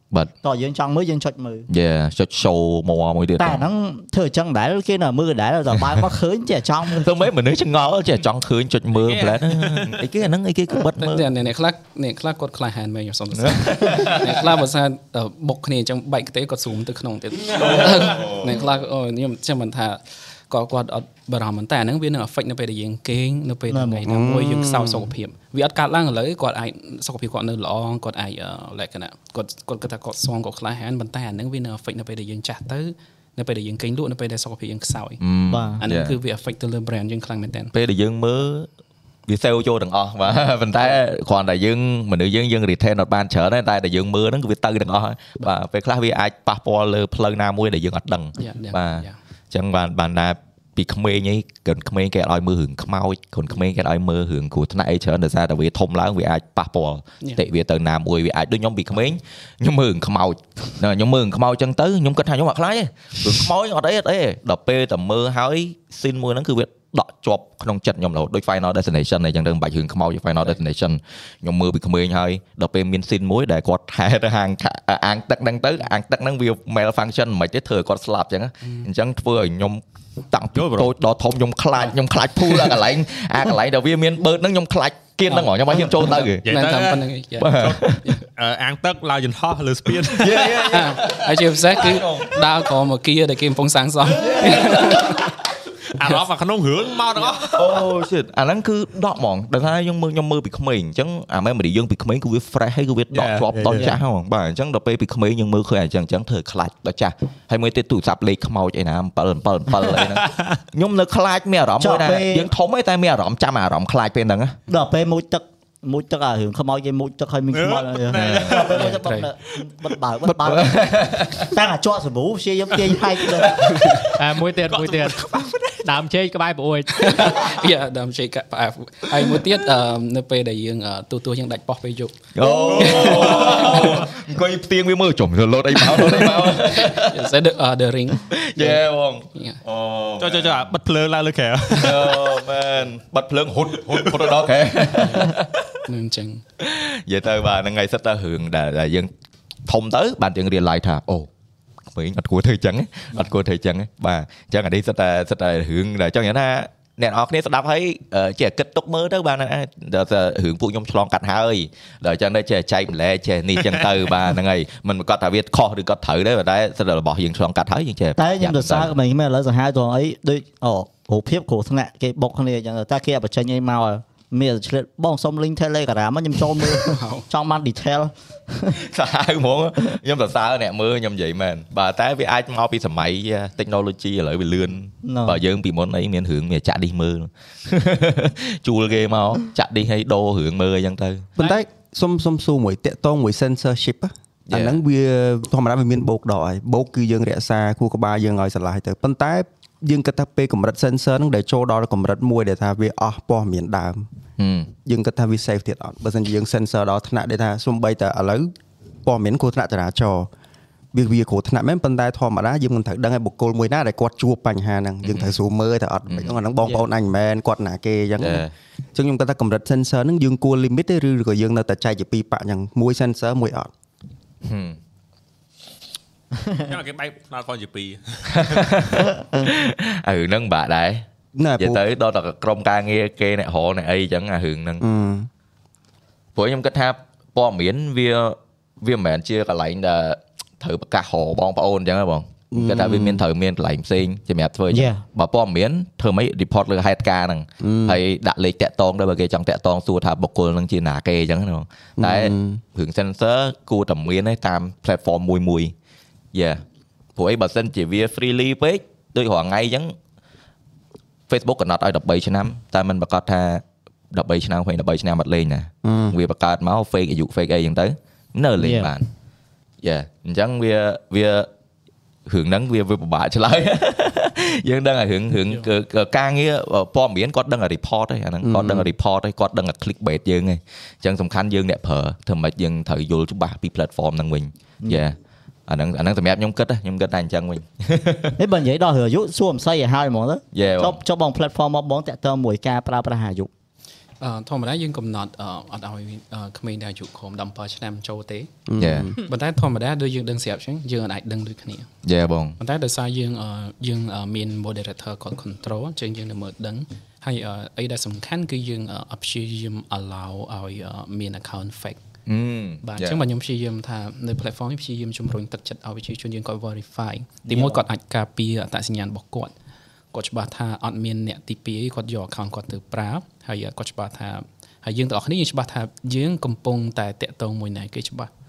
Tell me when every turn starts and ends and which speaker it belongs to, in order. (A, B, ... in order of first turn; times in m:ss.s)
0:00.4-0:01.7 A
0:01.7-0:03.6 B
0:03.4-0:07.2 A
0:06.9-0:11.2 B
0:08.9-0:10.0 C
0:11.0-0:35.2 D
0:13.4-0:14.4 B
0:17.6-0:18.6 B
0:23.7-0:24.0 A
0:24.0-0:25.1 E
0:35.2-0:36.2 B
0:35.5-0:35.8 A
0:35.8-0:37.7 D
0:37.7-0:38.7 B
0:39.3-1:26.4 B
0:48.4-0:49.2 D
1:18.6-1:18.9 D
1:20.5-1:20.9 C
1:25.3-1:25.9 D
1:26.0-1:30.8 C
1:26.4-1:28.2 D
1:27.4-1:28.0 B
1:30.0-1:32.4 B
1:30.6-1:35.3 D
1:34.1-1:35.3 B
1:34.4-1:35.2 C
1:35.9-1:37.9 C
1:37.5-1:54.6 B
1:43.1-1:43.9 C
1:43.7-1:44.0 A
1:49.8-1:50.6 C
1:51.8-1:52.5 A
1:54.7-2:03.8 A
1:57.5-1:58.8 C
1:58.1-1:58.6 B
1:58.7-1:59.3 D
2:00.3-2:01.5 B
2:03.4-2:04.1 B
2:04.1-2:07.5 F
2:04.7-2:05.6 C
2:06.9-2:14.0 D
2:12.3-2:17.2 B
2:12.4-2:14.0 C
2:16.0-2:19.6 D
2:18.3-2:20.7 B
2:20.2-2:22.4 C
2:21.7-2:25.8 B
2:24.9-2:26.4 D
2:26.6-2:29.1 B
2:29.6-2:31.3 B
2:31.9-2:48.9 B
2:48.2-2:58.8 A
2:56.8-2:57.2 D
2:58.7-3:11.3 B
3:05.0-3:05.4 A
3:11.4-3:24.1 E
3:14.5-3:14.8 B
3:24.4-3:24.7 B
3:24.8-3:28.5 E
3:29.0-3:30.3 E
3:30.9-3:43.7 E
3:35.0-3:35.4 B
3:36.1-3:36.4 B
3:38.2-3:38.5 B
3:44.4-3:44.8 B
3:46.5-3:48.7 C
3:48.3-3:51.0 B
3:51.3-3:51.8 E
3:51.6-3:54.8 B
3:54.8-3:55.3 E
3:56.3-4:15.7 B
4:02.5-4:03.2 E
4:04.7-4:05.0 A
4:07.6-4:08.0 E
4:12.0-4:12.6 E
4:16.3-4:16.6 B
4:17.2-4:19.9 B
4:21.3-4:29.1 B
4:25.8-4:26.2 E
4:28.6-4:28.9 A
4:29.8-4:31.5 B
4:32.3-4:45.2 B
4:38.4-4:38.9 E
4:45.7-4:48.4 B
4:48.4-4:53.5 A
4:50.5-4:51.0 B
4:54.2-4:58.5 D
4:58.7-4:59.1 E
4:58.8-4:59.1 B
4:59.2-5:01.9 D
5:02.0-5:02.6 B
5:02.6-5:12.0 D
5:12.3-5:13.2 B
5:12.8-5:19.5 D
5:17.4-5:17.8 A
5:20.1-5:28.3 D